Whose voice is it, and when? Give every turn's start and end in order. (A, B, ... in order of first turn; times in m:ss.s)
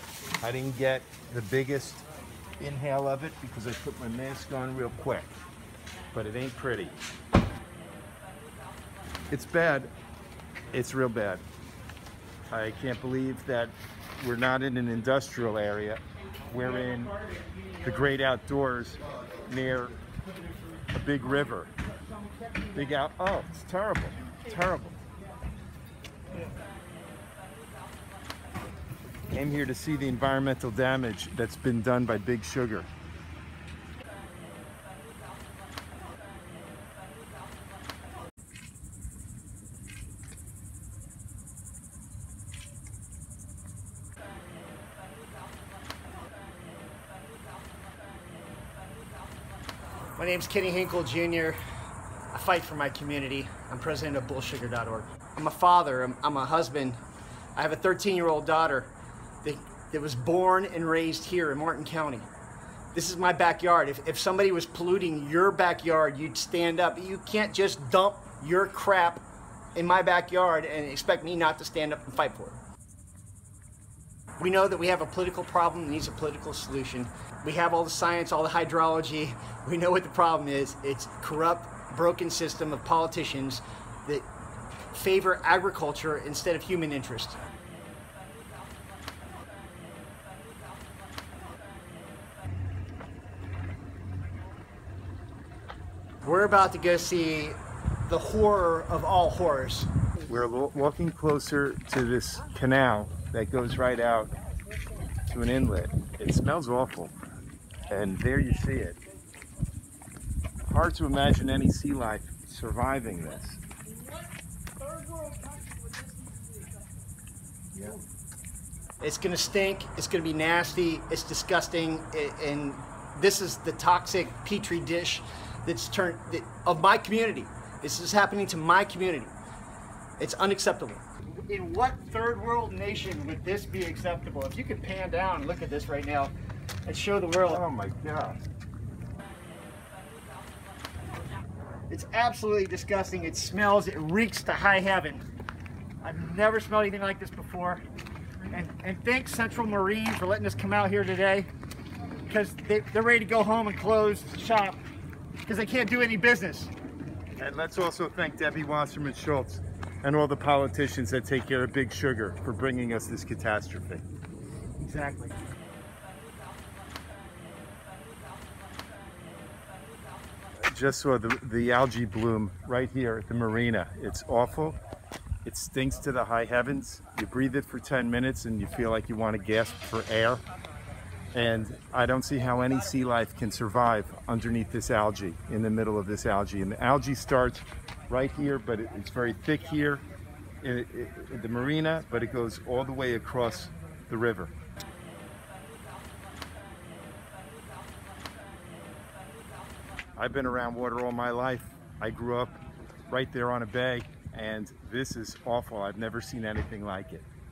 0:00.4-0:02.0 A
0:02.6-0:05.3 A
0:06.1-0:07.0 A
0:09.3-0:09.9 A
0:10.7-0:11.4 A
0:12.5-0:17.2 A
0:17.8-0:19.9 A
0:20.9-0:21.7 A
0:22.7-0:25.0 A
0:29.3-0:32.9 A
0:50.2-0:51.6 B
0:52.3-0:57.0 B
0:57.6-0:58.9 B
0:59.4-1:02.3 B
1:02.9-1:09.2 B
1:09.7-1:12.6 B
1:14.4-1:24.3 B
1:24.9-1:27.4 B
1:36.2-1:39.9 B
1:40.2-1:44.3 A
1:45.3-1:47.1 A
1:47.9-1:49.0 A
1:50.7-1:53.6 A
1:59.0-2:09.3 B
2:10.2-2:16.3 B
2:16.8-2:17.6 B
2:17.5-2:18.4 A
2:21.9-2:25.2 B
2:26.0-2:27.8 B
2:28.5-2:31.5 B
2:32.2-2:34.8 B
2:35.4-2:36.7 B
2:37.4-2:44.0 A
2:44.8-2:45.4 B
2:50.7-2:54.7 A
2:55.4-3:00.4 A
3:01.3-3:10.0 A
3:10.6-3:14.5 A
3:20.2-3:27.3 A